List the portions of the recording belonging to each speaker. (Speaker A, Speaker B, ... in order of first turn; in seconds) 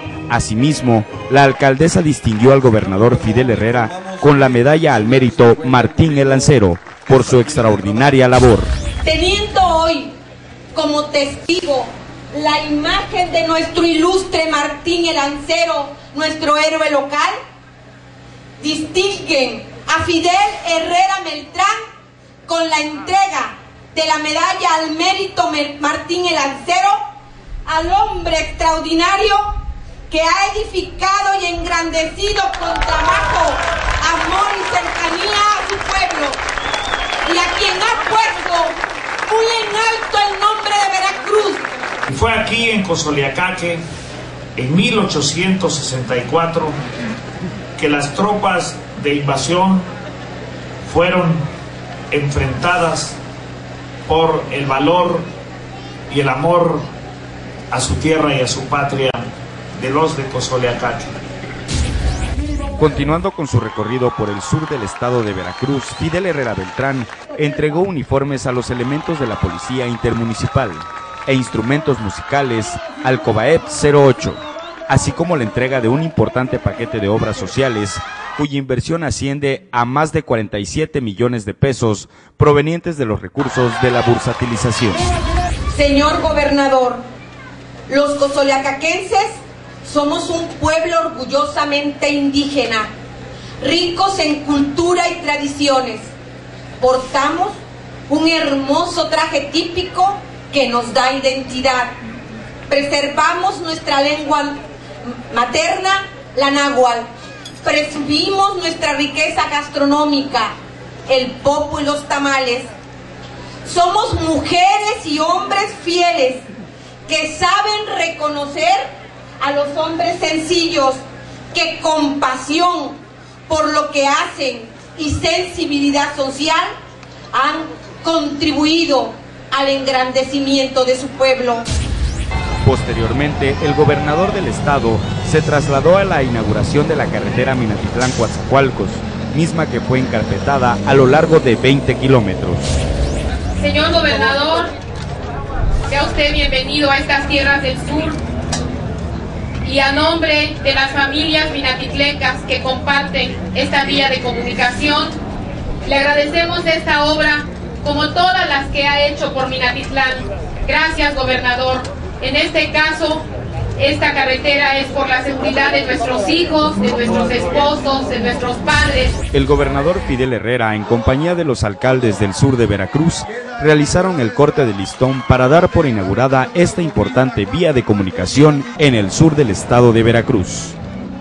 Speaker A: 0.3-8.7, 62.8-85.1, 132.6-142.7, 169.3-180.8
Speaker B: 9.0-10.1, 10.7-17.3, 18.6-21.7, 22.4-27.0, 27.6-29.6, 30.1-36.4, 37.2-41.6, 85.7-87.0, 87.9-92.9, 93.6-96.1, 96.8-102.0, 102.7-107.1, 107.6-110.5, 111.1-112.7, 113.6-116.4, 117.0-126.7, 127.3-131.7
Speaker C: 42.1-43.8, 44.5-46.8, 47.8-49.9, 50.8-51.5, 52.1-53.2, 54.1-55.2, 56.1-56.9, 57.7-59.2, 59.8-61.1
Speaker D: 143.6-144.7, 145.9-148.2, 149.6-155.2, 155.8-163.2, 163.8-169.1